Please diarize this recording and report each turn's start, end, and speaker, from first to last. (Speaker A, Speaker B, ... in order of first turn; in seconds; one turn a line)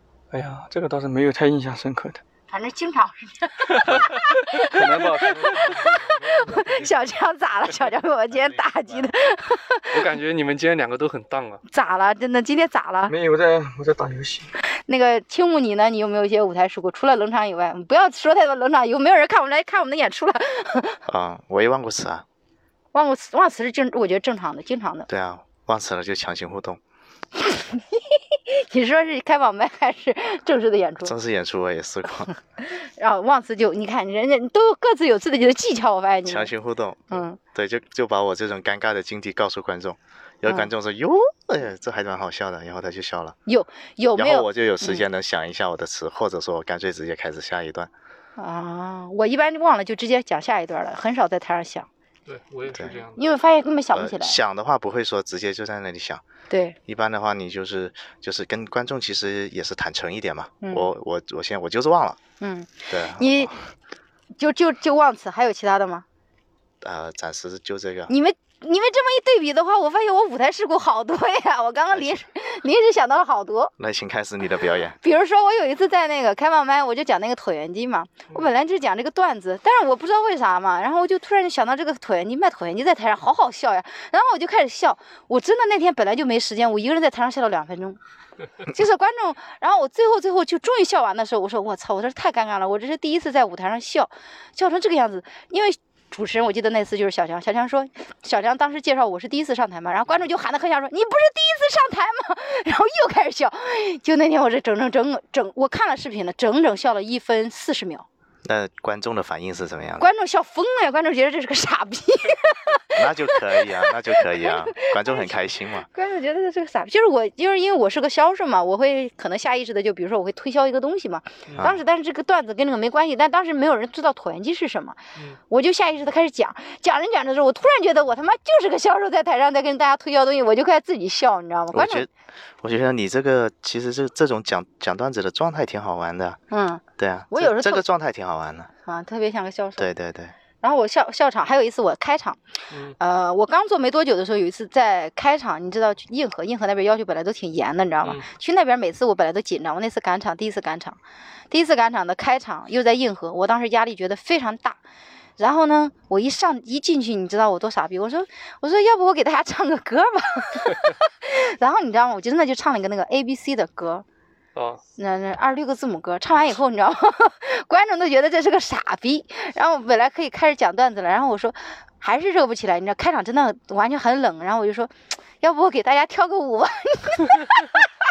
Speaker A: 0.3-2.2
Speaker B: 2.5-10.1
Speaker A: 3.8-7.0
Speaker C: 8.3-9.3
Speaker D: 9.9-11.6
Speaker B: 11.7-13.1
Speaker A: 13.1-14.5
Speaker B: 14.9-21.0
Speaker C: 21.1-22.2
Speaker B: 22.9-25.1
Speaker C: 25.1-26.8
Speaker B: 27.4-31.1
Speaker C: 31.0-32.3
Speaker B: 32.6-36.5
Speaker C: 36.2-43.4
Speaker B: 37.1-37.4
Speaker B: 43.5-45.0
Speaker C: 44.1-47.9
Speaker B: 48.4-51.9
Speaker D: 52.2-53.2
Speaker C: 52.7-53.0
Speaker B: 53.1-54.4
Speaker C: 53.9-56.2
Speaker B: 56.5-56.8
Speaker C: 56.9-62.2
Speaker B: 60.6-60.9
Speaker B: 62.4-63.5
Speaker C: 62.9-63.5
Speaker B: 64.4-66.0
Speaker C: 66.8-68.1
Speaker B: 68.1-73.7
Speaker C: 71.9-72.2
Speaker C: 73.8-75.0
Speaker B: 75.0-88.0
Speaker B: 88.6-108.1
Speaker C: 108.4-110.1
Speaker B: 110.0-132.1
Speaker C: 112.9-115.9
Speaker C: 121.5-121.8
Speaker C: 131.7-132.1
Speaker C: 132.6-136.4
Speaker B: 136.5-137.8
Speaker C: 137.0-138.7
Speaker B: 138.8-139.9
Speaker C: 139.8-140.3
Speaker B: 140.6-142.4
Speaker B: 143.0-151.0
Speaker B: 151.5-154.8
Speaker B: 155.4-164.1
Speaker D: 164.6-164.8
Speaker B: 165.0-177.8